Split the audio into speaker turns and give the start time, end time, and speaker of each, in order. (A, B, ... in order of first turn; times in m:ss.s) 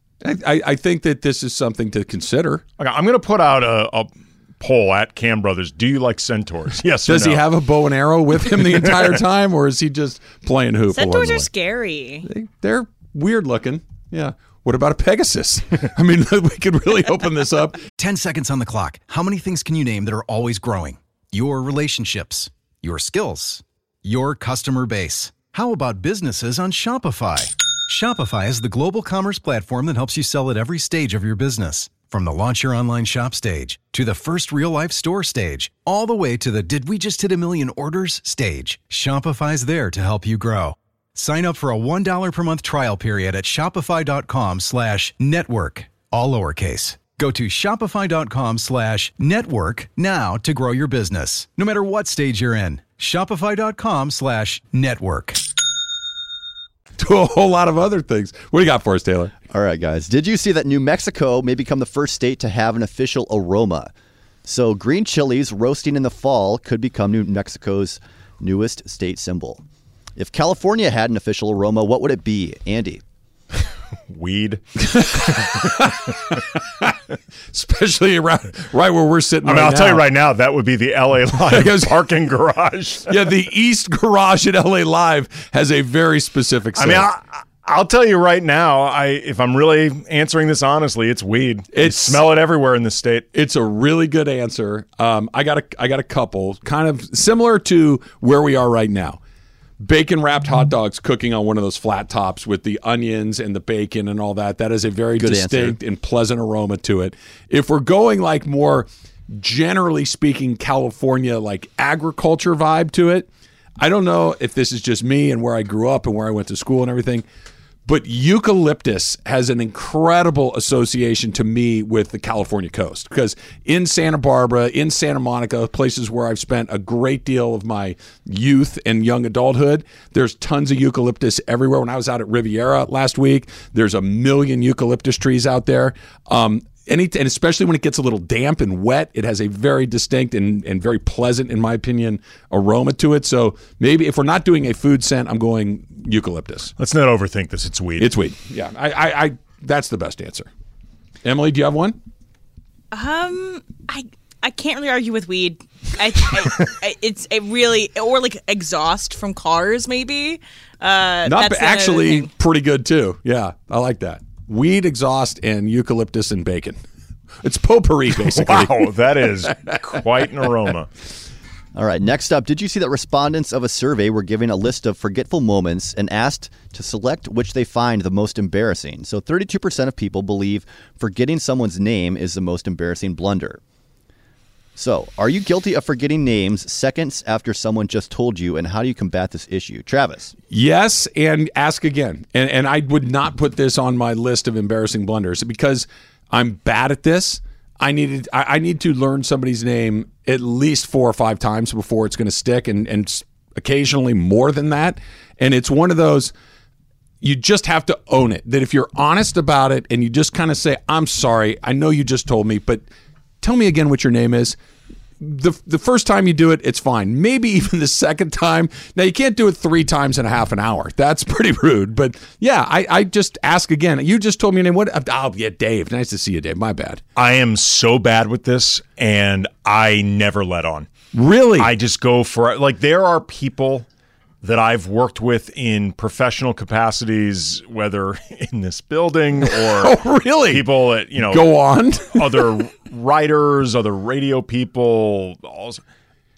0:00.2-0:02.6 A
0:02.8-0:07.5 B
0:07.0-0:11.5 A
0:08.6-0:09.2 B
0:10.9-0:12.3 C
0:12.2-0:17.8 A
0:18.0-0:55.4 D
0:57.0-0:59.3 A
0:59.5-1:03.9 E
1:04.5-1:09.6 E
1:10.2-1:13.0 E
1:14.1-1:15.6 B
1:14.8-1:17.0 A
1:17.5-1:20.0 A
1:19.4-1:23.3 B
1:21.5-1:22.0 A
1:23.1-1:27.1 A
1:26.8-1:33.3 B
1:31.7-1:32.2 A
1:33.3-1:39.2 A
1:39.8-1:53.3 A
1:45.2-1:45.8 E
1:53.8-1:57.2 A
1:57.9-2:26.7 A
2:26.8-2:28.1 B
2:28.0-2:30.5 A
2:31.2-2:32.0 A
2:32.9-2:42.3 C
2:41.3-2:46.8 A
2:47.4-2:48.9 A
2:48.2-2:50.9 B
2:49.5-2:49.8 A
2:51.8-3:03.6 E
3:04.8-3:10.3 E
3:10.5-3:26.3 A
3:27.2-3:32.8 A
3:33.4-3:34.6 A
3:35.2-3:47.0 A
3:47.2-3:50.9 B
3:51.1-3:51.7 A
3:51.6-3:53.9 B
3:54.4-4:05.8 B
3:59.5-4:00.7 A
4:01.3-4:02.5 A